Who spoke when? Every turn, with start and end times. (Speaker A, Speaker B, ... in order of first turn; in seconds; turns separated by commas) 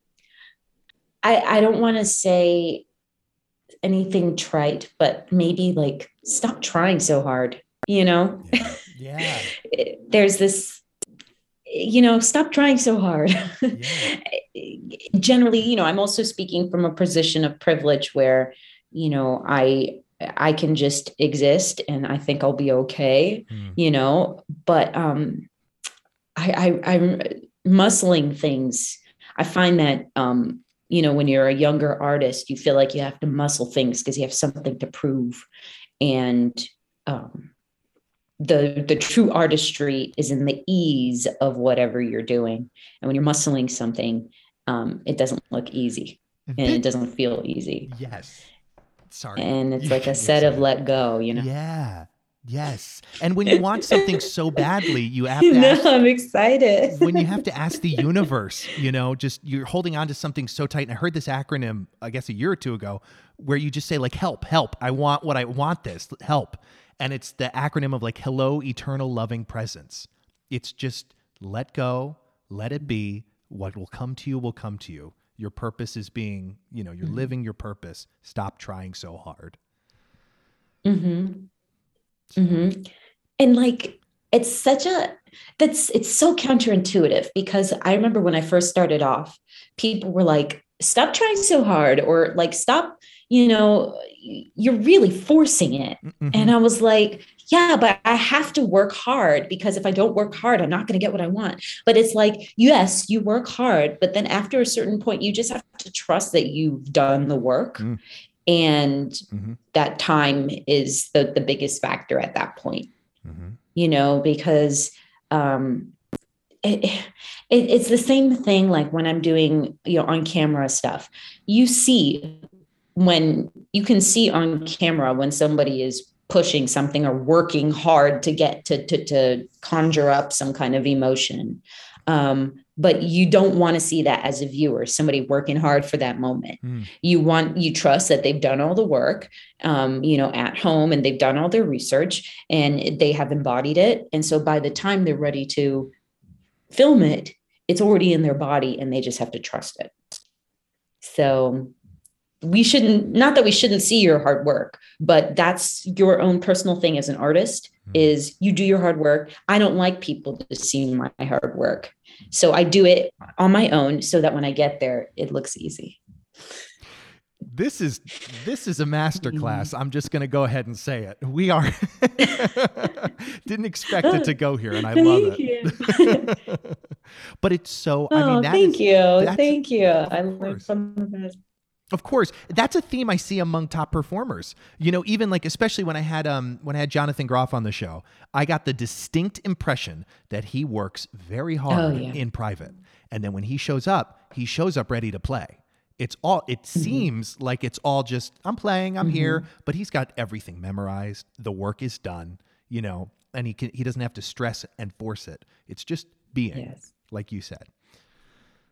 Speaker A: 1.2-2.8, Speaker A: 3.8-8.6, Speaker B: 8.4-9.5, Speaker A: 9.6-10.8, Speaker A: 11.7-25.5, Speaker B: 13.7-14.1, Speaker B: 23.5-23.8, Speaker A: 26.4-35.5, Speaker A: 36.0-37.5, Speaker A: 38.4-47.9, Speaker B: 46.5-46.8, Speaker B: 47.9-48.5, Speaker B: 49.1-50.7, Speaker A: 49.4-51.5, Speaker B: 51.3-55.9, Speaker A: 53.5-54.2, Speaker A: 54.9-57.4, Speaker B: 56.9-79.6, Speaker A: 77.0-77.3, Speaker A: 80.8-81.5, Speaker B: 82.3-82.7, Speaker A: 82.4-107.9, Speaker B: 96.0-96.5, Speaker A: 108.5-112.9, Speaker B: 109.3-109.6, Speaker B: 113.2-113.6, Speaker A: 113.7-115.9, Speaker A: 116.6-122.4, Speaker A: 122.9-145.9, Speaker B: 136.6-136.9, Speaker A: 146.7-149.9, Speaker A: 151.0-151.7, Speaker A: 152.4-166.0, Speaker B: 167.5-176.8, Speaker A: 169.2-169.7, Speaker A: 174.0-176.3, Speaker B: 177.4-180.6, Speaker A: 178.1-181.4, Speaker B: 181.9-207.7, Speaker A: 191.7-192.2, Speaker A: 196.7-197.1, Speaker A: 199.0-199.4, Speaker A: 206.5-206.9